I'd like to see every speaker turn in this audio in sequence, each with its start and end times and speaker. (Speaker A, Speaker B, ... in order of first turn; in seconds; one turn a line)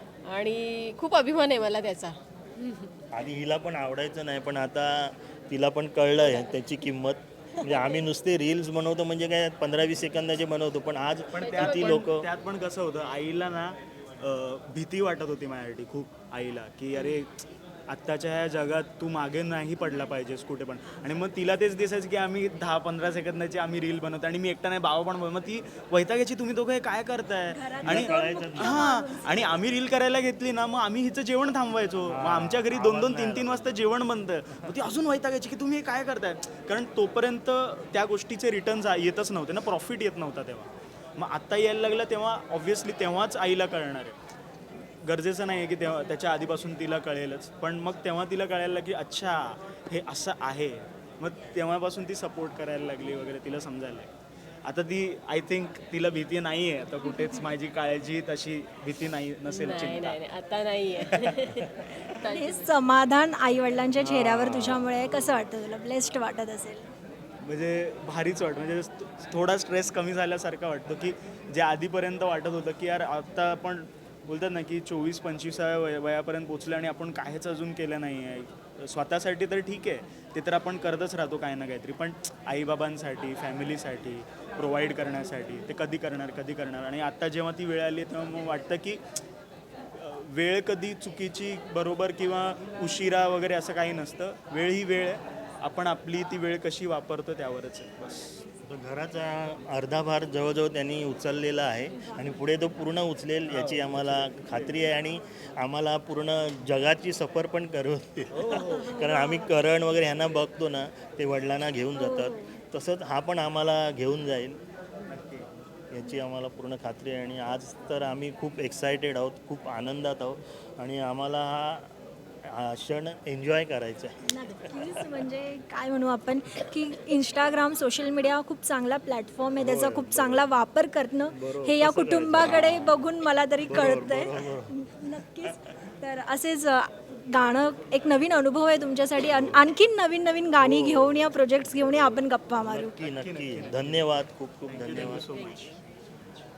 Speaker A: 0.2-3.0
Speaker B: 3.1-12.3
Speaker A: 7.7-8.0
Speaker C: 11.3-17.3
Speaker A: 11.4-12.1
Speaker C: 17.9-44.2
Speaker D: 27.5-29.6
Speaker B: 27.9-29.0
Speaker B: 32.1-33.8
Speaker C: 45.0-54.1
Speaker C: 54.6-60.2
Speaker A: 59.5-62.8
Speaker C: 61.0-61.3
Speaker D: 62.2-66.9
Speaker B: 64.0-64.9
Speaker C: 67.4-89.0
Speaker C: 89.9-98.4
Speaker B: 98.7-114.6
Speaker C: 103.5-104.8
Speaker C: 108.3-109.0
Speaker D: 108.6-109.5
Speaker D: 112.0-112.5
Speaker C: 115.1-115.5
Speaker B: 115.9-125.2
Speaker D: 124.2-142.9
Speaker B: 129.6-130.5
Speaker B: 131.3-133.1
Speaker B: 133.7-134.7
Speaker B: 139.2-139.7
Speaker B: 140.6-145.4
Speaker C: 143.0-144.1
Speaker C: 144.7-145.8
Speaker A: 145.1-145.5